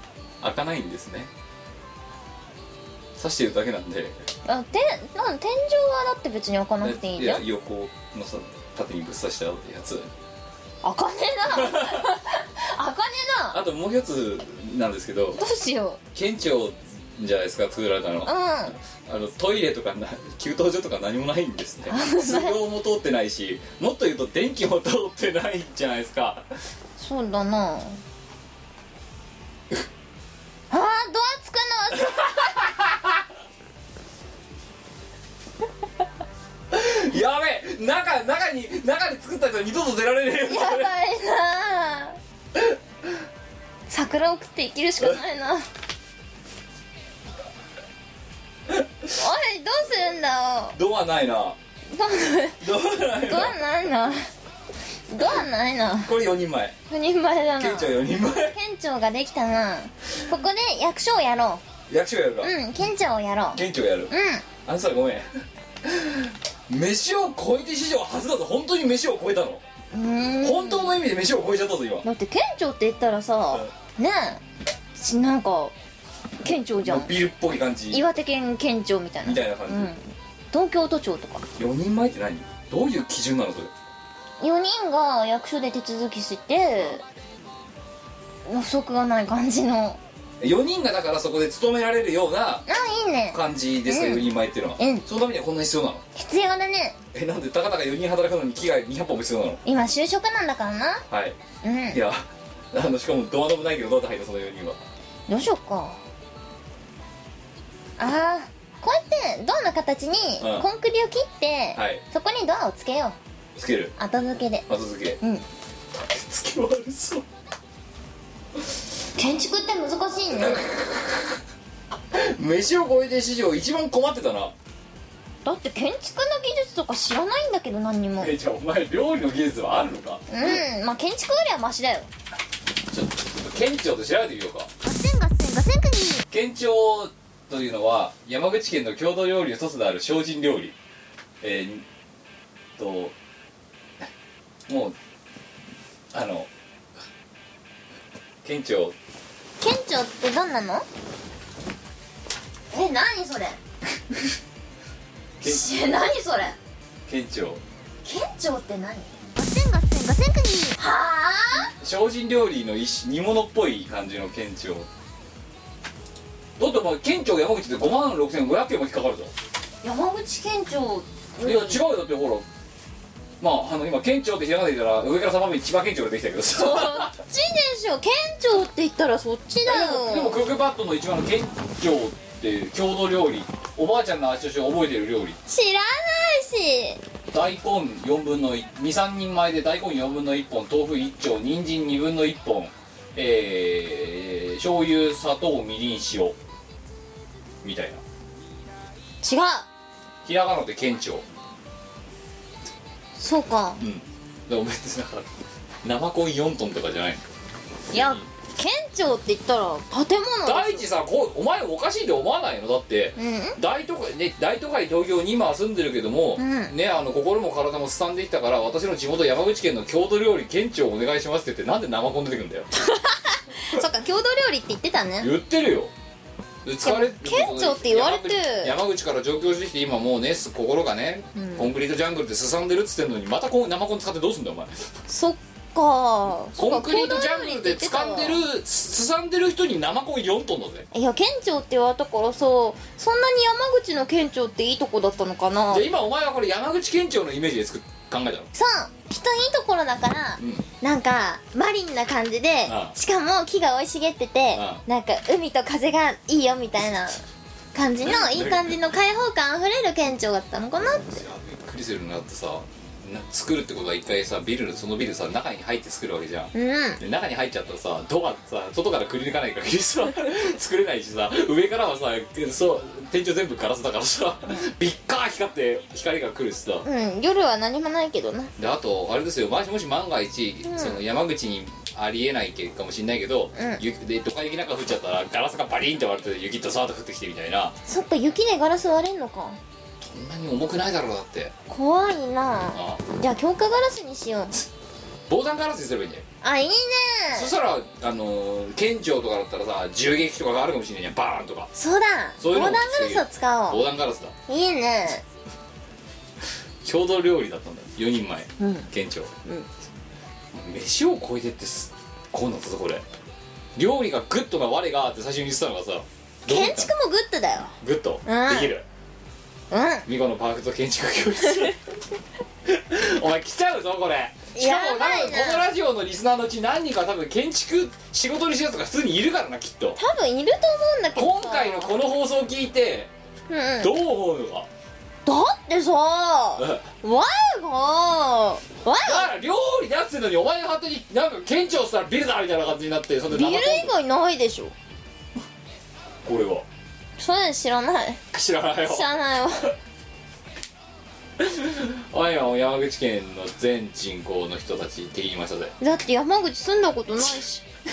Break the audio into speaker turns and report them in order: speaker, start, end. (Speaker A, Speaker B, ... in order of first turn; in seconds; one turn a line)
Speaker A: 0.4-1.3
Speaker A: 3.2-4.2
Speaker B: 4.5-7.4
Speaker A: 6.8-10.1
Speaker B: 10.8-13.6
Speaker A: 11.5-12.1
Speaker A: 13.5-15.4
Speaker B: 15.4-16.0
Speaker A: 16.1-18.3
Speaker B: 18.2-18.8
Speaker A: 18.9-26.5
Speaker B: 21.9-22.6
Speaker B: 27.0-28.0
Speaker B: 30.7-32.6
Speaker A: 32.0-33.2
Speaker A: 36.7-40.9
Speaker B: 40.5-42.2
Speaker B: 43.9-45.6
Speaker A: 48.8-49.2
Speaker B: 49.1-50.8
Speaker A: 50.8-51.6
Speaker B: 51.9-52.6
Speaker A: 52.6-53.6
Speaker B: 53.2-54.2
Speaker B: 55.1-56.1
Speaker A: 56.0-56.8
Speaker B: 56.9-61.6
Speaker A: 57.6-58.6
Speaker A: 61.9-62.5
Speaker B: 62.4-64.4
Speaker A: 63.5-64.1
Speaker A: 64.7-65.3
Speaker A: 65.8-69.6
Speaker B: 69.9-71.0
Speaker A: 70.4-72.0
Speaker B: 72.0-74.4
Speaker B: 75.0-75.7
Speaker B: 76.4-77.1
Speaker A: 76.8-78.0
Speaker B: 77.9-81.5
Speaker A: 79.2-79.9
Speaker A: 81.6-83.7
Speaker B: 84.4-87.0
Speaker B: 88.5-90.0
Speaker A: 90.4-92.7
Speaker B: 92.7-95.0
Speaker A: 93.3-96.0
Speaker B: 96.2-97.0
Speaker A: 97.1-99.6
Speaker B: 99.7-101.0
Speaker A: 101.1-101.4
Speaker B: 101.6-102.0
Speaker A: 101.9-104.8
Speaker B: 105.3-106.0
Speaker B: 108.0-113.2
Speaker A: 110.4-110.7
Speaker A: 111.8-112.0
Speaker A: 113.6-113.9
Speaker B: 114.0-114.7
Speaker A: 114.7-115.2
Speaker A: 116.0-117.2
Speaker B: 119.2-120.7
Speaker A: 120.4-121.4
Speaker A: 122.1-124.5
Speaker B: 125.5-128.3
Speaker A: 128.2-130.6
Speaker B: 130.3-132.1
Speaker A: 132.9-134.7
Speaker C: 134.8-136.2
Speaker A: 136.3-140.8
Speaker A: 141.4-141.8
Speaker A: 142.8-143.1
Speaker A: 144.7-144.9
Speaker A: 146.1-146.5
Speaker A: 148.4-148.9
Speaker B: 149.6-150.9
Speaker B: 152.7-153.6
Speaker B: 155.4-156.6
Speaker A: 157.1-157.6
Speaker B: 158.0-159.2
Speaker C: 159.4-160.8
Speaker B: 160.8-161.7
Speaker A: 161.8-164.9
Speaker A: 166.6-169.3
Speaker B: 169.8-171.8
Speaker A: 171.4-172.5
Speaker A: 173.4-177.1
Speaker B: 176.5-180.4
Speaker A: 179.7-185.4
Speaker B: 185.5-187.0
Speaker A: 187.3-196.4
Speaker A: 197.6-198.0
Speaker B: 199.2-199.7
Speaker A: 200.2-201.2
Speaker B: 203.2-203.8
Speaker A: 203.8-205.3
Speaker A: 205.8-207.2
Speaker A: 207.9-208.2
Speaker B: 207.9-210.8
Speaker A: 210.5-222.7
Speaker B: 213.2-213.6
Speaker B: 216.4-216.8
Speaker B: 222.8-225.3
Speaker A: 225.2-225.9
Speaker A: 226.7-234.9
Speaker B: 226.8-228.7
Speaker B: 231.3-231.7
Speaker B: 235.1-238.4
Speaker A: 236.6-240.9
Speaker B: 240.9-245.9
Speaker A: 245.7-248.5
Speaker B: 248.5-257.2
Speaker A: 250.4-250.7
Speaker A: 252.7-252.9
Speaker A: 254.6-254.8
Speaker B: 257.7-261.2
Speaker A: 258.0-258.8
Speaker A: 260.8-276.9
Speaker B: 266.5-267.0
Speaker B: 276.8-278.5
Speaker A: 278.6-287.8
Speaker B: 280.6-281.0
Speaker B: 283.6-283.8
Speaker B: 287.9-289.6
Speaker A: 290.0-291.5
Speaker B: 291.7-294.6
Speaker A: 292.7-293.0
Speaker A: 295.3-296.2
Speaker B: 296.4-297.5
Speaker A: 297.4-301.7
Speaker B: 301.8-303.8
Speaker A: 302.4-304.3
Speaker B: 304.5-305.2
Speaker A: 306.8-309.3
Speaker B: 308.6-308.9
Speaker A: 310.5-313.0
Speaker A: 313.8-316.9
Speaker B: 316.5-317.7
Speaker A: 317.8-318.9
Speaker B: 318.3-318.7
Speaker B: 319.7-320.1
Speaker A: 320.1-321.8
Speaker A: 322.7-330.0
Speaker B: 324.5-325.7
Speaker B: 330.0-331.9
Speaker A: 331.2-333.1
Speaker B: 333.5-333.9
Speaker A: 333.8-334.7
Speaker B: 335.3-339.3
Speaker A: 336.6-336.9
Speaker A: 339.0-343.9
Speaker B: 343.3-344.7
Speaker A: 346.2-346.7
Speaker B: 347.2-348.2
Speaker A: 348.3-349.1
Speaker B: 348.9-349.7
Speaker A: 351.4-355.7
Speaker B: 355.8-357.6